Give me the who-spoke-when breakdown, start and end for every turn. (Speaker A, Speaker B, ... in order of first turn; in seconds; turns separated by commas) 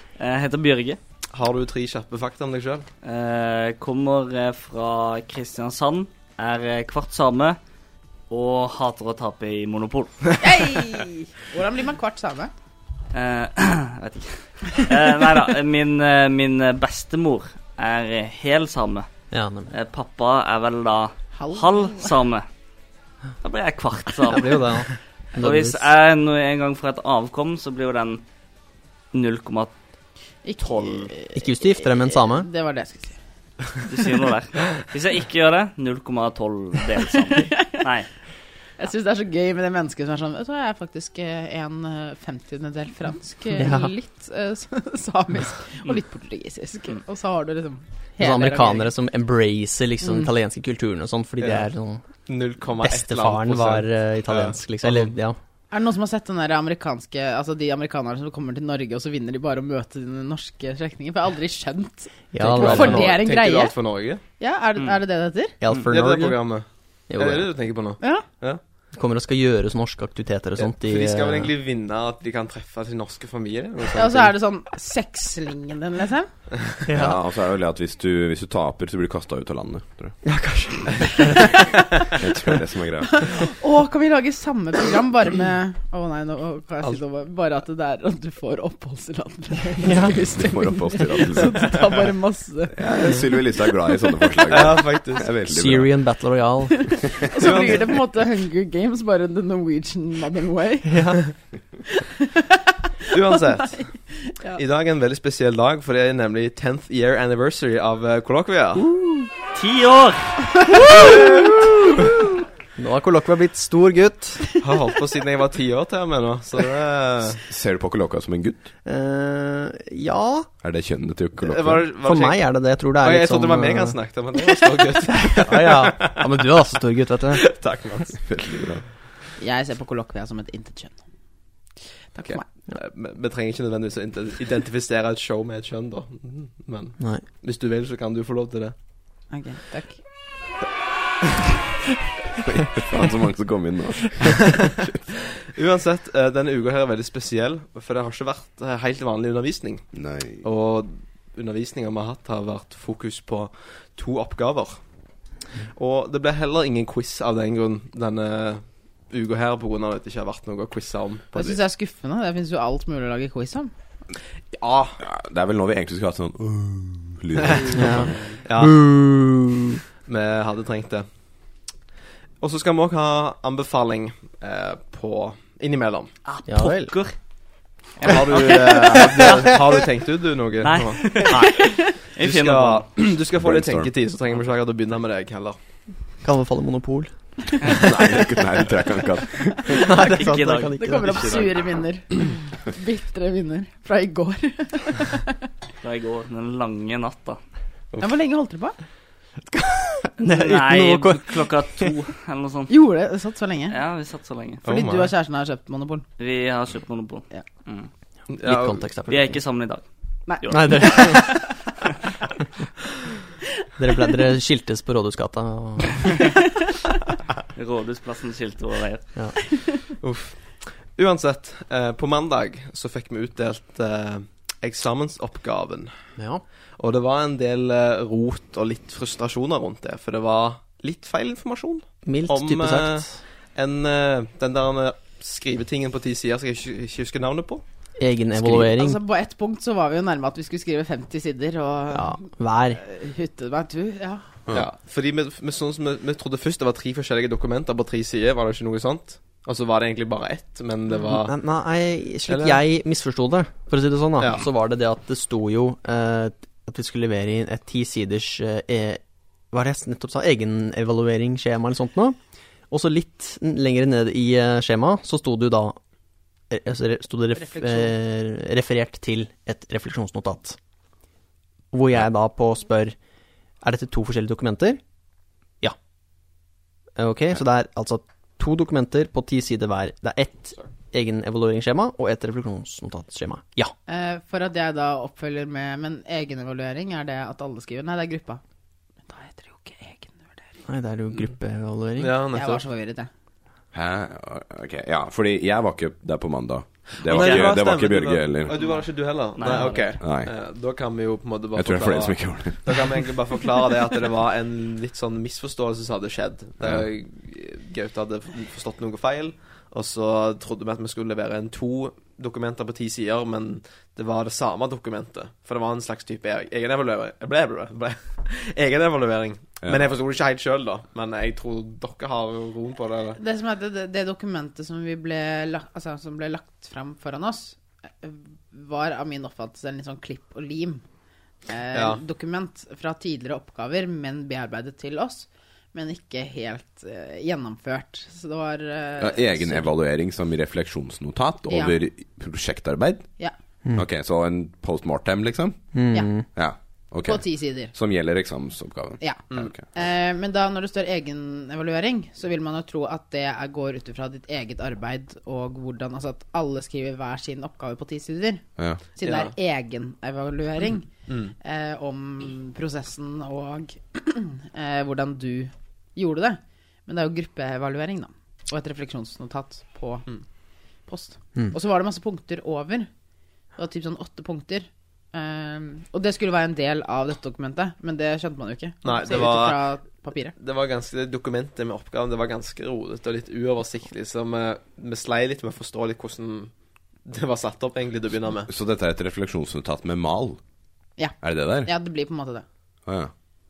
Speaker A: 0.2-1.0, Speaker B: 1.3-2.9, Speaker A: 3.0-7.6, Speaker A: 8.3-10.5, Speaker C: 10.4-12.5, Speaker A: 13.1-19.1, Speaker D: 19.3-19.7, Speaker A: 19.7-22.5, Speaker C: 21.4-22.1, Speaker A: 23.4-28.2, Speaker D: 24.3-25.9, Speaker A: 29.1-29.7, Speaker C: 30.4-33.2, Speaker D: 31.4-32.5, Speaker A: 33.9-38.1, Speaker C: 37.4-37.8, Speaker C: 38.8-48.9, Speaker D: 43.6-43.9, Speaker D: 48.2-52.0, Speaker C: 50.0-50.3, Speaker B: 52.3-55.1, Speaker D: 52.8-55.4, Speaker C: 55.7-65.6, Speaker D: 62.3-63.2, Speaker B: 62.4-64.2, Speaker D: 65.6-66.6, Speaker B: 65.9-68.6, Speaker D: 67.1-67.6, Speaker C: 68.0-68.3, Speaker D: 68.9-71.5, Speaker B: 70.6-74.3, Speaker C: 74.0-76.3, Speaker D: 76.9-77.2, Speaker E: 77.0-80.2, Speaker D: 80.2-81.7, Speaker E: 82.1-83.4, Speaker C: 83.2-93.1, Speaker D: 89.8-90.3, Speaker E: 90.2-92.1, Speaker E: 92.7-96.1, Speaker C: 93.9-94.2, Speaker B: 94.5-95.3, Speaker D: 95.5-97.1, Speaker C: 96.9-101.3, Speaker B: 97.4-98.0, Speaker D: 100.8-101.2, Speaker C: 102.3-104.6, Speaker B: 103.1-104.0, Speaker B: 104.6-108.8, Speaker D: 108.8-109.3, Speaker A: 109.5-110.7, Speaker D: 112.8-114.6, Speaker B: 114.6-117.4, Speaker E: 117.4-118.7, Speaker D: 118.8-120.5, Speaker E: 120.6-121.9, Speaker B: 121.4-126.2, Speaker D: 122.0-124.0, Speaker D: 125.4-127.5, Speaker B: 127.3-128.7, Speaker E: 128.2-128.8, Speaker C: 129.4-131.0, Speaker C: 132.1-132.4, Speaker B: 132.3-138.8, Speaker D: 137.0-137.2, Speaker C: 139.3-140.0, Speaker E: 142.4-144.9, Speaker B: 145.5-154.8, Speaker E: 149.9-150.4, Speaker B: 155.6-161.6, Speaker C: 161.3-163.7, Speaker B: 164.5-165.0, Speaker E: 165.0-168.2, Speaker B: 167.5-168.8, Speaker D: 167.7-169.8, Speaker B: 170.1-171.1, Speaker B: 172.4-176.1, Speaker A: 176.3-177.2, Speaker D: 176.4-177.0, Speaker A: 178.0-179.6, Speaker B: 178.0-185.6, Speaker A: 180.6-182.9, Speaker E: 183.3-183.9, Speaker D: 186.2-187.7, Speaker E: 187.7-189.9, Speaker D: 189.7-191.2, Speaker A: 189.9-191.5, Speaker C: 190.8-195.3, Speaker A: 195.8-197.4, Speaker C: 198.0-198.8, Speaker D: 199.5-201.9, Speaker A: 200.2-202.7, Speaker C: 202.7-203.8, Speaker A: 203.7-204.7, Speaker C: 204.6-206.1, Speaker B: 204.7-205.1, Speaker A: 206.2-207.9, Speaker B: 208.3-208.8, Speaker D: 208.4-209.4, Speaker A: 209.1-211.3, Speaker C: 210.3-211.5, Speaker D: 210.5-211.4, Speaker D: 213.8-216.3, Speaker A: 217.6-219.1, Speaker B: 219.9-226.0, Speaker D: 226.2-226.4, Speaker B: 226.8-237.6, Speaker D: 232.0-233.2, Speaker D: 238.0-239.0, Speaker C: 238.7-244.2, Speaker D: 241.9-242.8, Speaker B: 244.5-251.4, Speaker D: 251.0-262.2, Speaker B: 252.3-252.6, Speaker B: 254.2-254.4, Speaker D: 262.7-265.8, Speaker D: 266.5-270.6, Speaker C: 267.4-267.9, Speaker D: 271.7-273.0, Speaker D: 273.6-274.8, Speaker D: 277.0-283.7, Speaker C: 283.9-288.4, Speaker C: 289.1-290.4, Speaker D: 290.6-292.1, Speaker B: 292.0-292.6, Speaker C: 292.3-293.1, Speaker E: 293.7-298.6, Speaker B: 297.0-323.2, Speaker A: 297.1-297.5, Speaker A: 298.6-300.0, Speaker E: 299.5-300.3, Speaker E: 301.6-303.2, Speaker E: 306.6-306.9, Speaker E: 319.6-319.9, Speaker C: 323.2-330.8, Speaker C: 331.5-339.7, Speaker B: 331.7-332.0, Speaker E: 339.0-343.1, Speaker C: 341.5-341.8, Speaker E: 343.7-349.6, Speaker D: 345.7-346.3, Speaker C: 347.0-347.7, Speaker C: 349.0-370.1, Speaker E: 358.6-358.9, Speaker B: 359.0-359.3, Speaker B: 361.1-361.3, Speaker C: 370.9-372.9, Speaker C: 373.6-380.3, Speaker B: 378.8-379.7, Speaker B: 380.3-386.5, Speaker B: 387.1-388.5, Speaker E: 388.5-390.4, Speaker C: 391.0-392.4, Speaker E: 391.2-391.7, Speaker E: 392.9-393.1